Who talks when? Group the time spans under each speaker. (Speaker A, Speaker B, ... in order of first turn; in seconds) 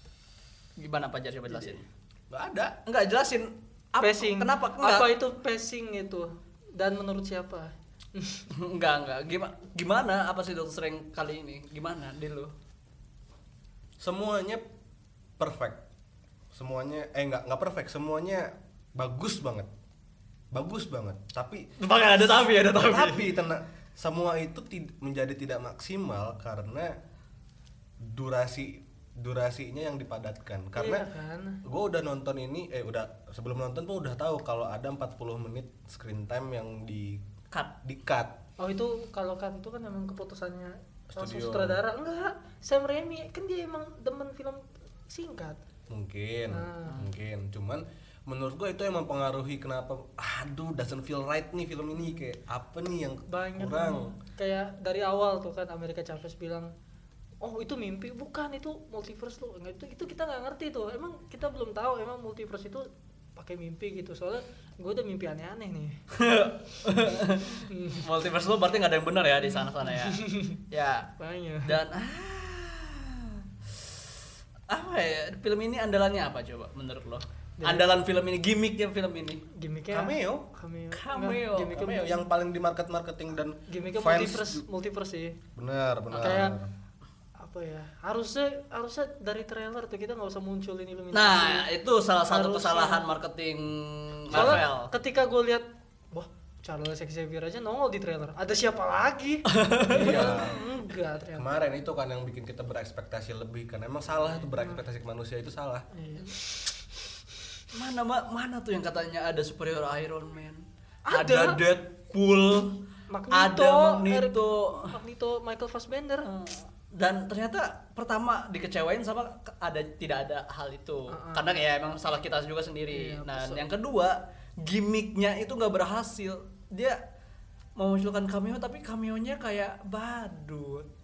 Speaker A: 0.8-1.9, 2.9-5.1, 8.5-12.5, 21.8-23.3, 66.1-71.1, 71.7-73.9, 74.7-79.4, 80.9-81.9, 91.1-94.9, 99.5-100.3, 107.7-112.8, 113.3-114.9, 116.4-127.0, 127.8-130.9
Speaker B: 2.3-2.8, 14.0-14.7, 15.4-15.8, 16.5-19.7, 20.5-21.7, 22.7-26.9, 28.0-31.1, 31.6-37.2, 37.8-38.4, 41.1-41.8, 45.9-54.1, 79.9-80.5, 81.7-84.6, 85.5-86.7, 94.3-94.7, 99.9-100.6, 101.3-105.9
Speaker C: 4.0-8.5, 30.8-31.6, 38.6-45.6, 46.5-47.0, 53.3-56.7, 57.4-66.0, 67.7-68.1, 69.4-70.6, 71.2-71.8, 77.6-77.9, 79.5-82.2, 83.7-85.4, 86.2-86.6, 87.4-91.7, 92.3-93.0, 94.3-101.5, 104.5-104.8, 105.9-106.8, 111.1-111.6, 113.1-116.4, 121.1-121.6, 122.9-123.7